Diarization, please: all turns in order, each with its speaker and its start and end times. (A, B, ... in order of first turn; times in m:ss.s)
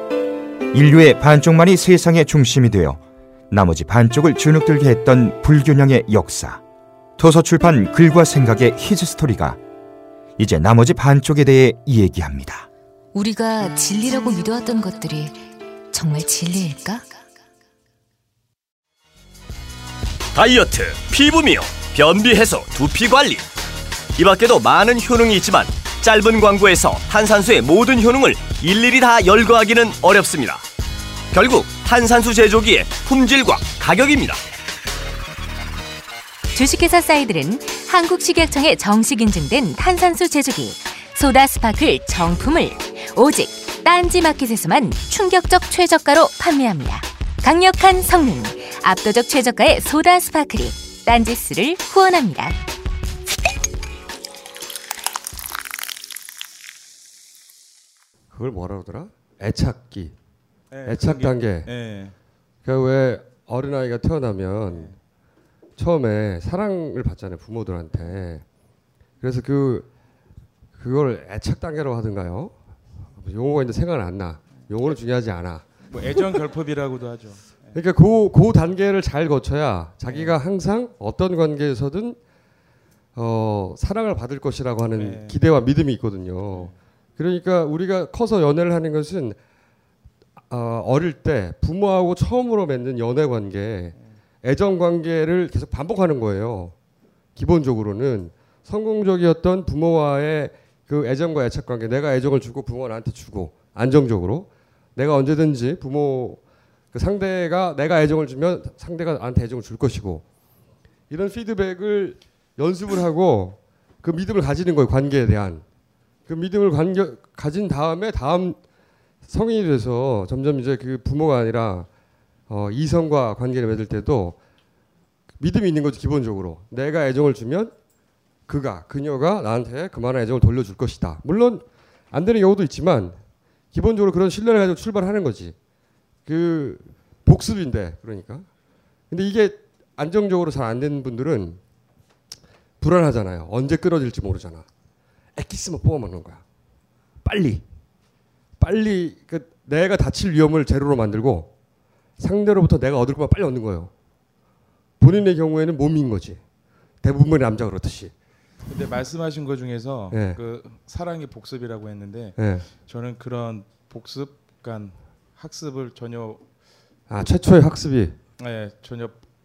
0:00.7-0:06.6 A
0:07.2-0:09.6 A
0:10.4-0:12.7 A
0:13.1-0:17.1 B
0:20.3-0:23.5 C
0:24.2-0:30.7 C
0:31.3-0:34.4 C
0:36.5-0:52.6 B
0:58.3-1:00.2 D
1:00.7-1:02.2 E
1:00.8-1:01.8 D
1:02.6-1:05.0 D
1:04.7-1:05.0 E
1:05.8-1:08.4 D
1:09.2-1:09.9 D
1:10.8-1:12.6 D
1:13.2-1:16.3 D
1:15.9-1:17.8 E
1:17.7-1:22.2 D
1:20.0-1:20.4 E
1:23.2-1:29.4 D
1:24.9-1:25.4 E
1:30.5-1:36.7 D
1:37.4-1:46.4 D
1:46.9-1:50.3 D
1:51.1-1:55.6 D
1:56.3-1:58.6 D
1:59.2-2:01.9 D
2:02.5-2:04.4 D
2:05.4-2:07.8 D
2:08.5-2:13.2 D
2:13.7-2:15.6 D
2:16.3-2:18.5 D
2:19.1-2:21.6 D
2:22.8-2:24.7 D
2:25.4-2:26.4 D
2:27.2-2:27.6 D
2:28.6-2:31.5 D
2:32.2-2:33.9 D
2:35.0-2:36.4 D
2:37.0-2:38.1 D
2:38.6-2:46.5 E
2:40.1-2:40.4 D
2:42.4-2:42.7 D
2:47.1-2:48.2 D
2:47.2-2:47.5 E
2:48.4-2:49.2 E